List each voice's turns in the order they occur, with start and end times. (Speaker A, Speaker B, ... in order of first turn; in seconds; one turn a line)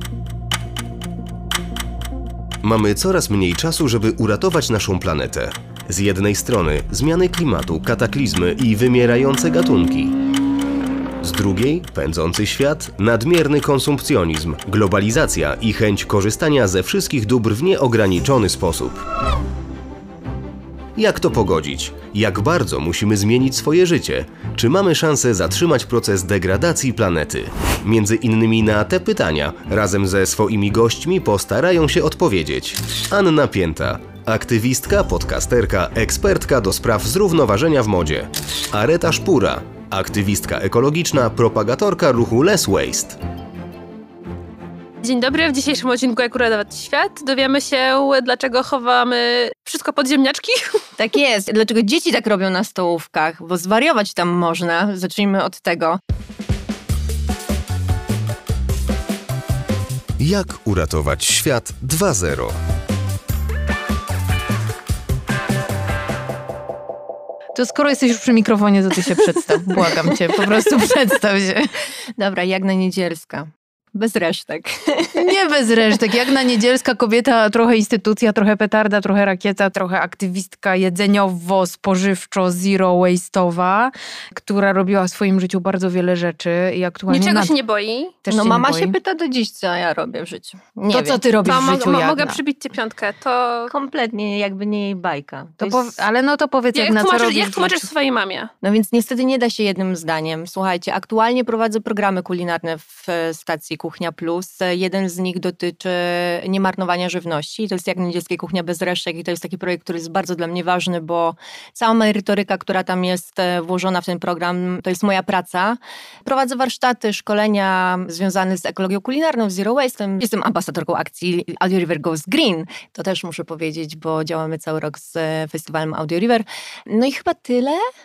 Speaker A: 2.6-10.1
Speaker A: 11.2-19.0
Speaker A: 20.9-43.2
Speaker B: 45.0-50.8
Speaker C: 51.0-56.0
Speaker A: 60.2-62.5
Speaker D: 67.5-71.7
Speaker C: 72.2-75.3
Speaker D: 75.1-87.5
Speaker B: 87.1-88.1
Speaker D: 88.2-89.0
Speaker C: 88.3-91.2
Speaker D: 90.9-92.4
Speaker B: 91.4-93.7
Speaker C: 93.7-96.0
Speaker D: 95.6-97.9
Speaker B: 96.7-98.5
Speaker C: 98.6-127.8